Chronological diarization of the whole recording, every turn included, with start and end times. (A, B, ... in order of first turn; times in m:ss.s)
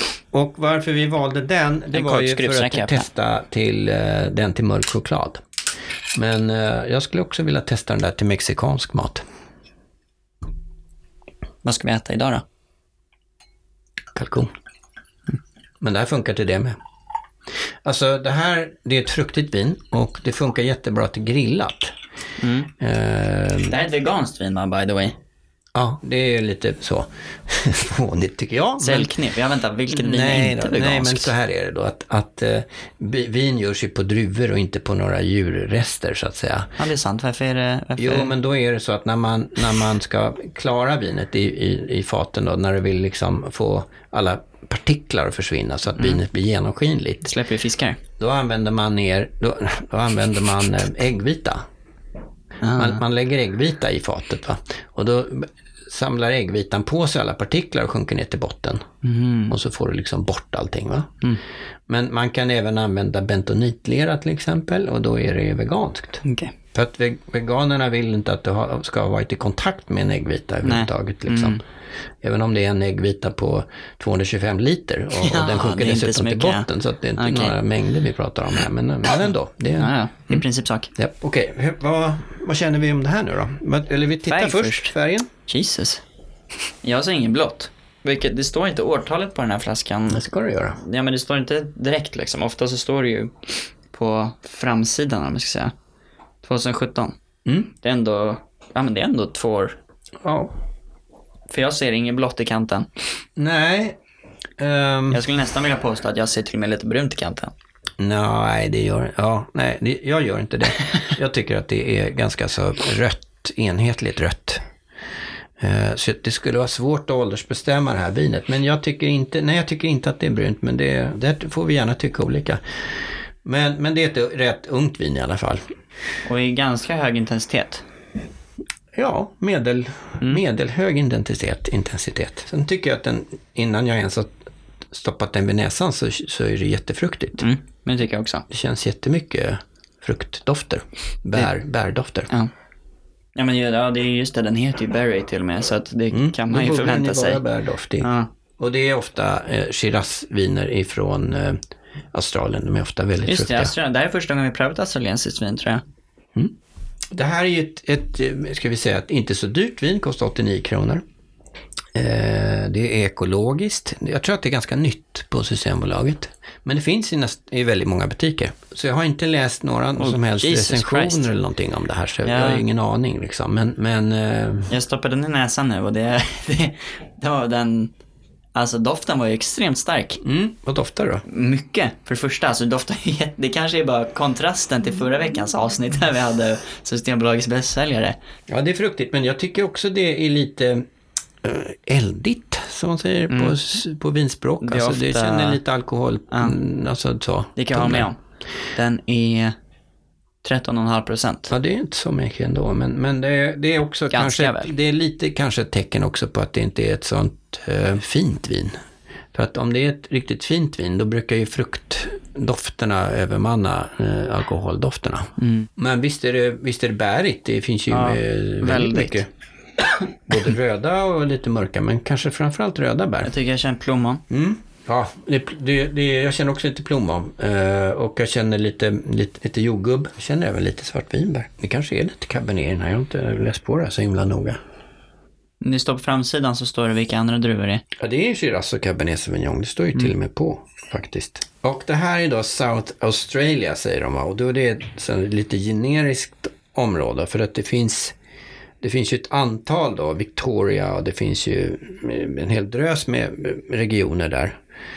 0:00.3-0:05.4 A
0:01.9-0:03.1 B
0:06.1-0:09.2 A
0:11.6-0:12.4 B
0:14.1-0:14.5 A
0:15.8-0:16.8 A
0:17.8-0:21.9 A
0:22.4-0:22.7 B
0:22.8-0:23.7 A
0:23.7-0:25.2 B
0:25.7-0:29.1 A
0:28.8-0:31.3 B
0:29.9-0:36.8 A
0:36.8-0:38.3 B
0:38.0-0:47.3 A
0:47.2-0:48.0 B
0:48.2-0:51.6 A
0:52.6-0:53.0 B
0:52.7-0:58.9 A
0:59.0-0:59.5 B
0:59.5-1:01.2 A
1:01.9-1:06.2 A
1:06.2-1:06.5 B
1:06.7-1:11.6 A
1:10.6-1:11.6 B
1:12.2-1:20.4 A
1:15.2-1:17.5 B
1:19.8-1:20.9 B
1:21.0-1:25.3 A
1:24.3-1:24.9 B
1:25.5-1:26.0 B
1:26.8-1:35.7 B
1:30.1-1:30.8 A
1:36.4-1:37.2 B
1:37.4-1:37.7 A
1:37.8-1:39.8 B
1:40.2-1:40.5 A
1:41.5-1:42.9 B
1:43.4-1:44.0 A
1:44.6-1:45.2 A
1:45.1-1:47.5 B
1:48.0-1:54.6 A
1:55.6-2:02.6 A
2:03.4-2:05.6 A
2:06.2-2:07.8 B
2:08.9-2:14.4 A
2:14.9-2:17.4 A
2:17.4-2:18.4 B
2:18.5-2:22.3 A
2:23.4-2:27.4 B
2:26.1-2:31.6 A
2:28.0-2:28.3 B
2:32.1-2:33.7 A
2:33.3-2:35.8 B
2:37.1-2:41.0 A
2:41.9-2:54.7 A
2:50.0-2:51.3 B
2:52.2-2:52.6 B
2:54.7-2:57.9 B
2:58.5-3:00.2 B
3:00.2-3:01.2 A
3:01.2-3:08.2 B
3:08.5-3:10.8 A
3:11.4-3:18.1 A
3:13.3-3:13.6 B
3:14.6-3:15.6 B
3:17.6-3:18.2 B
3:18.7-3:19.5 B
3:20.4-3:21.5 B
3:21.5-3:28.8 A
3:24.1-3:24.7 B
3:29.3-3:39.3 A
3:35.4-3:35.7 B
3:37.9-3:39.2 B
3:40.3-3:43.3 A
3:43.2-3:44.2 B
3:44.3-3:54.6 A
3:55.6-3:57.8 B
3:58.0-4:08.1 A
4:08.8-4:14.6 A